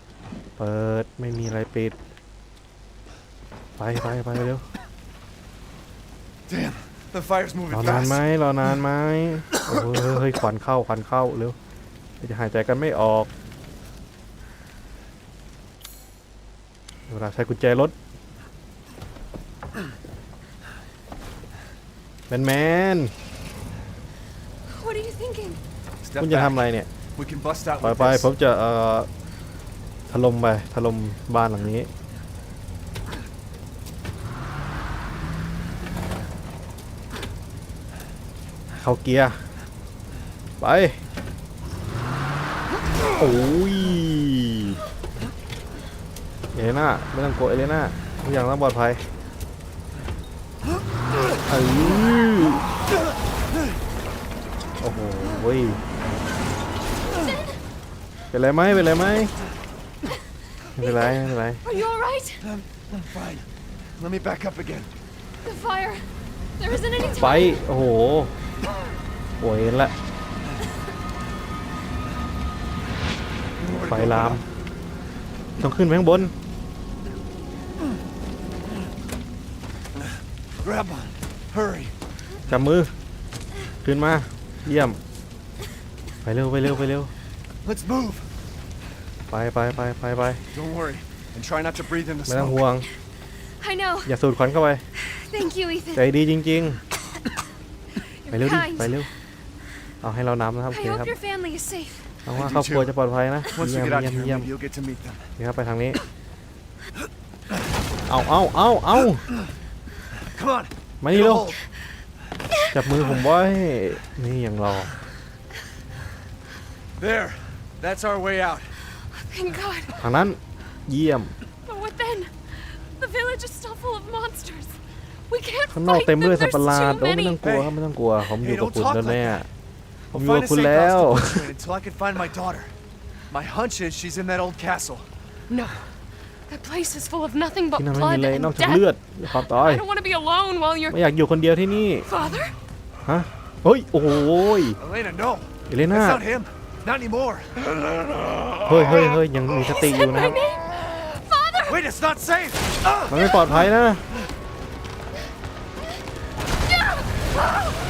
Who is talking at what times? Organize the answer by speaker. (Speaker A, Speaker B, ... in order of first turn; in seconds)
Speaker A: 0.6-2.0, 3.8-4.7, 7.7-11.6, 12.2-13.3, 17.1-17.9, 22.3-23.1, 26.2-26.9, 27.8-29.1, 30.1-31.9, 38.8-39.4, 40.6-41.0, 43.2-44.8, 46.5-49.0, 51.5-52.6, 54.8-55.8, 58.3-59.3, 60.8-61.6, 67.1-68.3, 69.4-69.9, 73.9-74.4, 75.6-76.3, 82.5-82.9, 83.8-85.0, 86.2-87.1, 89.3-90.4, 92.3-92.9, 94.1-94.8, 95.9-96.8, 98.3-99.1, 100.0-101.1, 102.2-104.5, 105.4-106.0, 108.1-109.3, 111.0-111.5, 112.7-114.9, 120.0-121.3, 125.7-129.5, 130.1-131.5, 137.8-139.8, 140.9-142.1, 143.1-144.8, 145.7-146.2, 148.6-150.4, 153.1-154.0
Speaker B: 6.5-8.2, 26.0-26.6, 27.1-28.3, 62.4-63.5, 64.0-64.9, 73.6-74.4, 80.6-82.0, 87.6-88.3, 90.5-92.6, 102.3-103.0, 103.5-105.3, 110.2-111.6, 117.0-118.8, 127.4-127.8, 128.4-129.5, 130.1-132.7, 133.3-135.1, 144.8-149.1, 151.7-153.7
Speaker C: 24.6-25.6, 57.1-57.6, 60.8-62.4, 65.4-67.6, 93.6-94.1, 94.9-96.1, 98.0-99.1, 100.7-102.1, 112.5-112.8, 119.0-120.0, 121.6-127.4, 135.5-135.9, 136.5-141.1, 142.1-142.6, 149.6-151.8